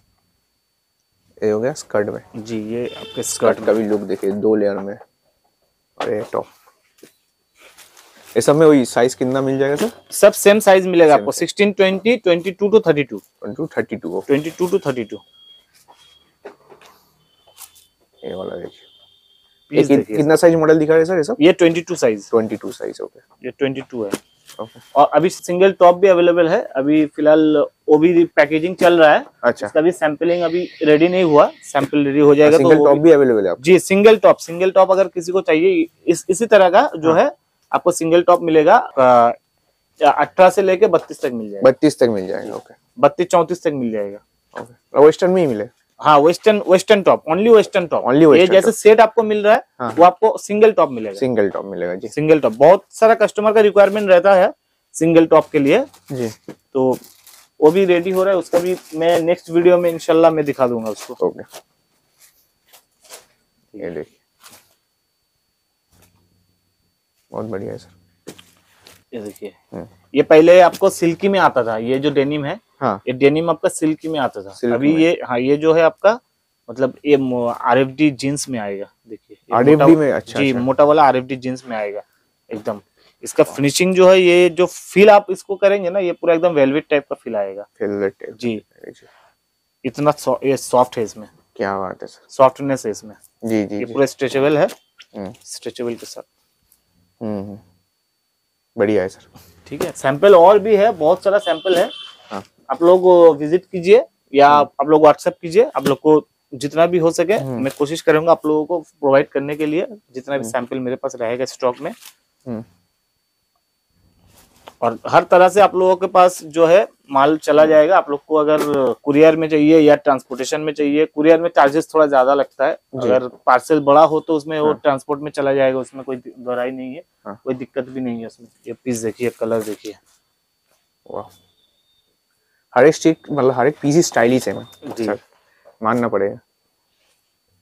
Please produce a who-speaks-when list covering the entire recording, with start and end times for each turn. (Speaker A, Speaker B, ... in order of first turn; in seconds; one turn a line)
Speaker A: 1.4-2.2
Speaker B: 2.3-3.8
Speaker A: 3.4-5.0
Speaker A: 6.0-6.5
Speaker A: 8.3-9.9
Speaker B: 10.1-13.2
Speaker A: 11.1-11.4
Speaker A: 13.4-14.3
Speaker B: 14.3-15.2
Speaker A: 18.2-18.8
Speaker B: 19.7-20.3
Speaker A: 19.7-21.4
Speaker B: 21.4-22.3
Speaker A: 22.3-23.2
Speaker B: 23.4-24.2
Speaker B: 24.9-33.0
Speaker A: 29.4-29.7
Speaker A: 32.4-33.6
Speaker B: 33.6-39.4
Speaker B: 40.0-41.7
Speaker A: 41.6-42.7
Speaker B: 43.0-44.2
Speaker A: 44.5-45.7
Speaker B: 46.0-51.2
Speaker A: 48.0-48.7
Speaker A: 49.8-50.0
Speaker A: 51.2-52.1
Speaker B: 52.1-55.9
Speaker A: 56.1-56.3
Speaker B: 56.7-57.0
Speaker B: 57.6-61.2
Speaker A: 61.2-61.5
Speaker A: 63.8-64.1
Speaker A: 67.3-67.9
Speaker B: 69.1-69.5
Speaker B: 70.1-87.7
Speaker A: 74.6-75.0
Speaker A: 79.5-80.7
Speaker A: 87.8-89.0
Speaker B: 88.3-88.6
Speaker B: 89.8-91.3
Speaker A: 91.5-92.2
Speaker B: 92.3-93.2
Speaker A: 93.4-94.0
Speaker B: 93.8-94.7
Speaker B: 95.4-96.2
Speaker A: 97.2-97.6
Speaker A: 98.8-99.2
Speaker B: 99.7-101.9
Speaker B: 102.7-111.9
Speaker A: 107.4-107.7
Speaker B: 114.8-130.0
Speaker A: 122.9-123.2
Speaker A: 132.7-135.2
Speaker B: 134.8-135.2
Speaker A: 135.8-136.4